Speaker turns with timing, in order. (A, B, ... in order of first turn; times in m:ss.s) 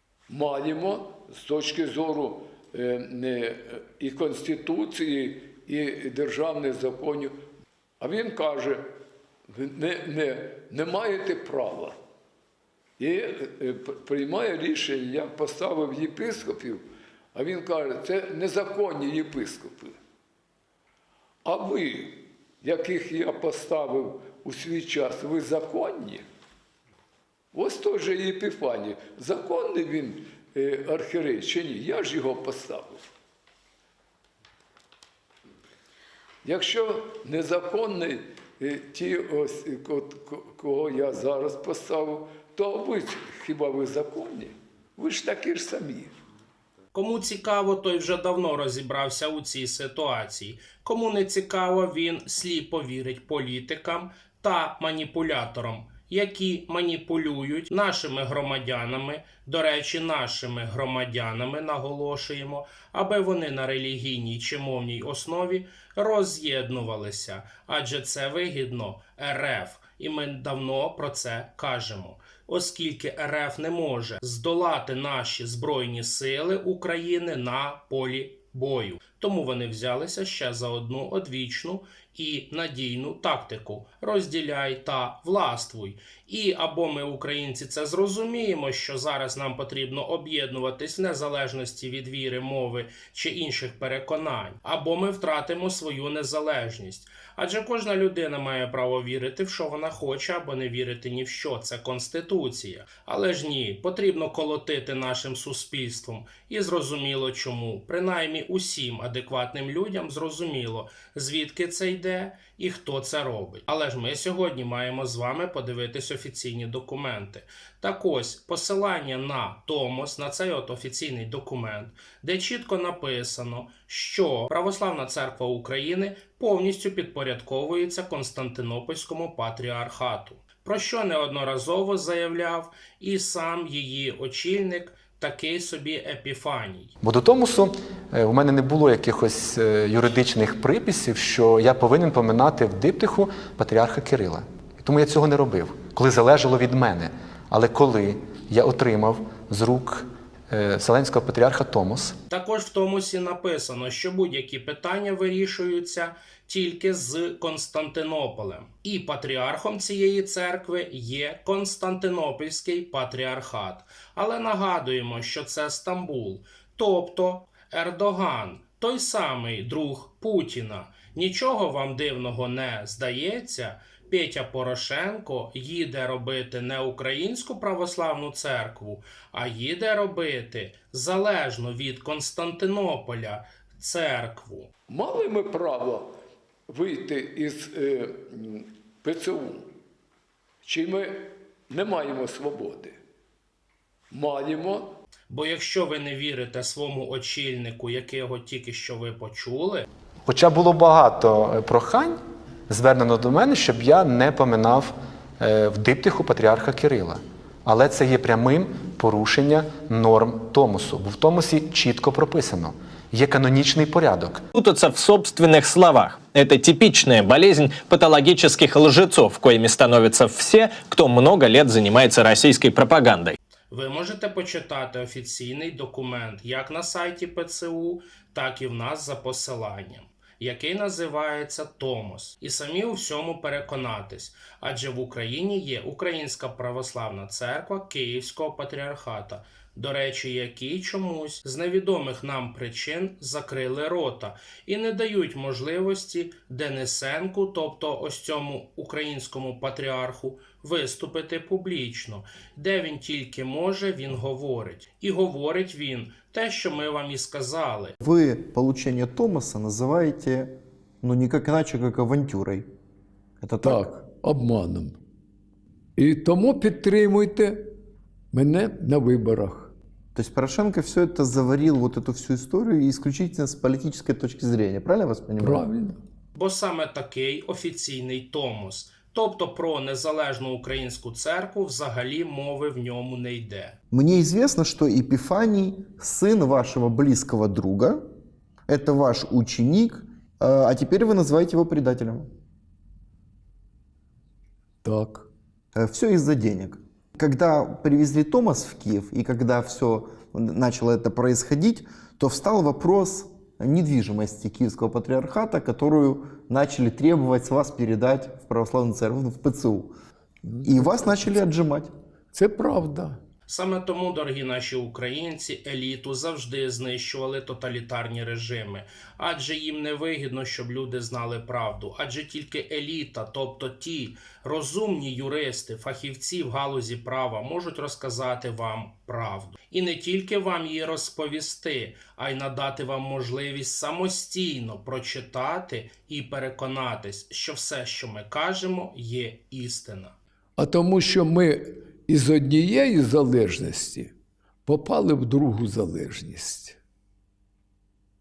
0:00.3-0:07.4 A
0:08.0-0:08.9 A
0:09.5-0:12.0 A
0:13.0-0:16.8 A
0:17.3-0:20.0 A
0:21.4-0:26.2 A
0:27.5-0:33.0 A
0:36.4-0:46.2 A
0:46.9-2:16.9 B
2:17.0-2:32.2 C
2:32.3-3:04.7 B
3:04.9-3:06.1 A
3:06.7-3:09.7 A
3:10.6-3:13.0 A
3:14.1-3:15.0 A
3:15.3-3:19.9 B
3:20.3-3:22.2 C
3:22.7-3:34.4 C
3:34.6-3:43.4 D
3:43.7-4:18.0 B
4:18.0-4:22.7 E
4:23.4-4:23.9 E
4:23.6-4:25.0 A
4:26.0-4:27.7 A
4:28.3-4:29.7 A
4:30.2-4:35.7 E
4:35.4-4:36.0 A
4:36.4-4:43.8 B
4:43.9-4:48.0 E
4:48.7-4:52.3 E
4:54.8-4:55.3 A
4:55.8-5:09.9 E
5:10.4-5:11.4 A
5:10.6-5:11.9 E
5:12.3-5:13.2 A
5:13.5-5:40.2 B
5:40.6-5:44.1 A
5:44.7-5:46.8 A